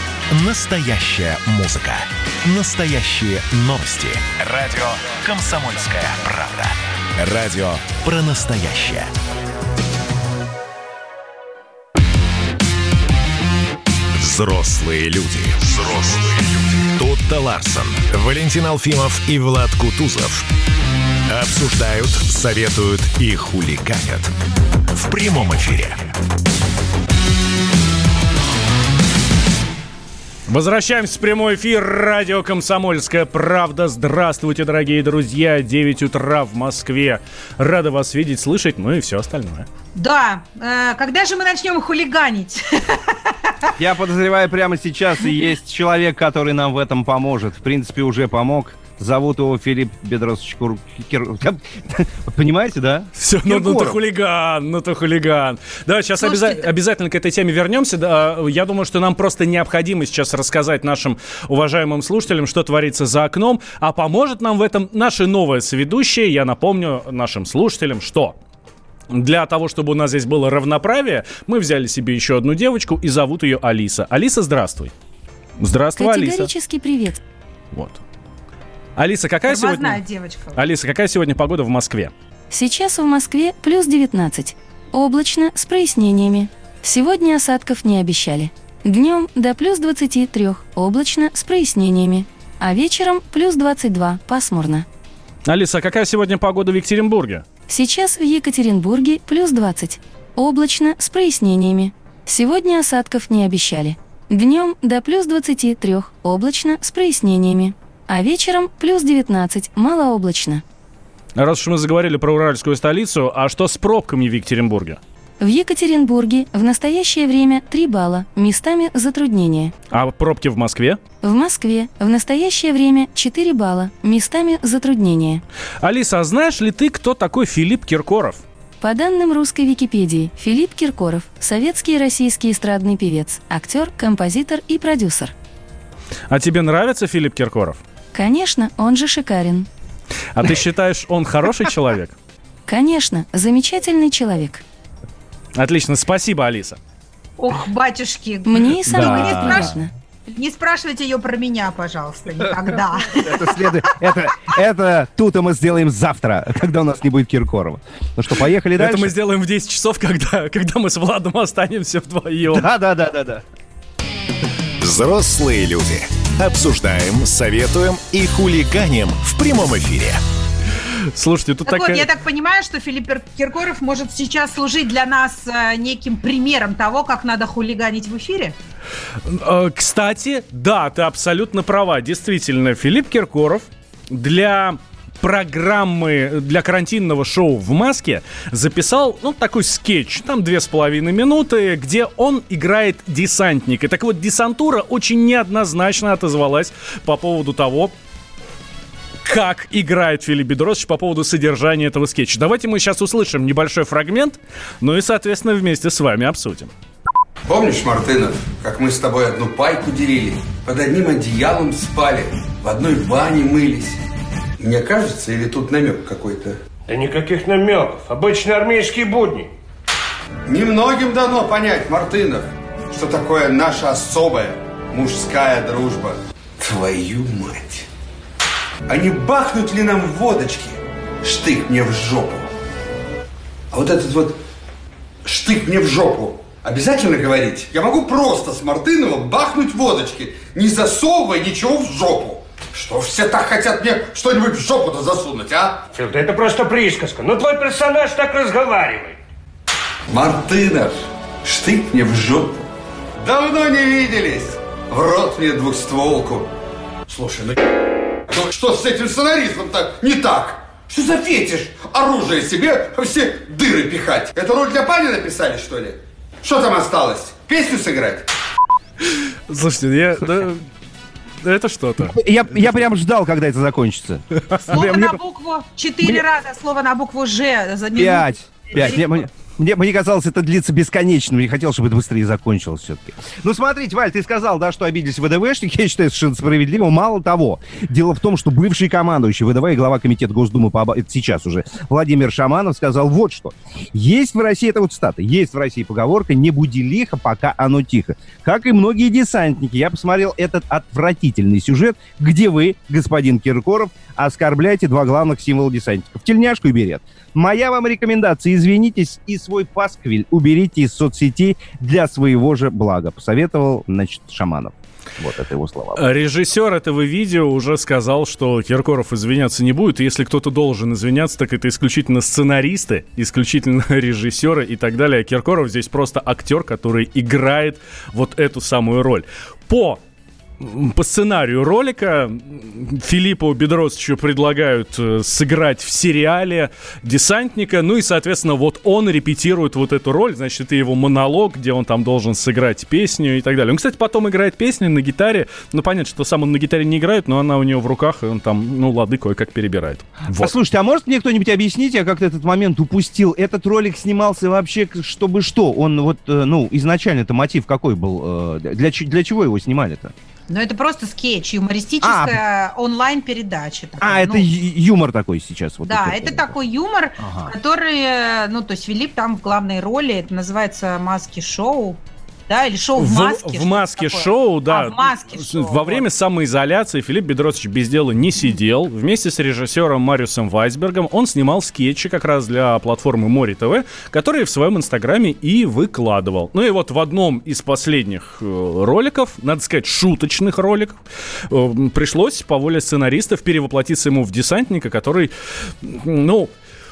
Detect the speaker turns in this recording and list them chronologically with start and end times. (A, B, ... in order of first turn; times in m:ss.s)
0:00.3-0:09.1 A
0:14.1-0:20.5 A
0:21.3-0:24.3 A
0:24.9-0:26.0 A
0:30.5-0:39.7 B
0:40.0-0:43.4 C
0:43.8-0:54.0 D
0:53.2-1:08.4 B
0:56.2-0:56.6 C
1:09.1-1:14.9 B
1:15.6-1:16.5 B
1:16.0-1:17.2 E
1:17.7-1:18.0 B
1:19.0-1:20.0 B
1:19.5-1:20.6 C
1:20.5-1:22.1 B
1:22.5-1:34.8 E
1:35.4-1:37.4 B
1:37.7-1:50.6 E
1:51.3-1:55.0 B
1:55.4-1:59.8 E
1:59.9-2:01.0 B
2:01.2-2:05.4 E
2:05.8-2:08.4 B
2:08.8-2:15.3 E
2:16.3-2:17.8 B
2:18.1-2:19.7 E
2:20.3-2:22.2 B
2:22.7-2:24.6 E
2:25.6-2:26.8 B
2:27.4-2:33.6 C
2:28.4-2:29.9 E
2:28.9-2:29.7 D
2:33.1-2:39.1 D
2:38.8-2:42.7 B
2:42.5-2:43.4 D
2:44.8-2:50.2 A
2:51.1-2:52.1 B
2:51.6-2:58.5 C
2:59.2-3:17.9 B
3:19.2-3:26.7 B
3:27.5-3:34.0 F
3:34.6-3:36.6 F
3:36.9-3:39.5 G
3:40.5-3:47.9 F
3:48.9-3:52.5 F
3:53.7-3:54.4 F
3:55.2-4:05.8 F
4:05.9-4:09.2 G
4:10.1-4:12.7 F
4:13.2-4:16.5 F
4:17.1-4:17.6 F
4:18.3-4:28.3 F
4:29.1-4:30.6 B
4:31.4-4:32.1 B
4:32.1-4:35.2 D
4:34.7-4:39.1 C
4:38.0-5:16.0 D
5:15.9-5:30.0 B
5:30.6-5:50.5 B
5:50.3-6:00.1 D
6:00.5-6:04.5 C
6:02.0-6:02.4 D
6:04.0-6:06.5 D
6:05.8-6:16.0 C
6:07.2-6:07.5 D
6:13.0-6:36.5 B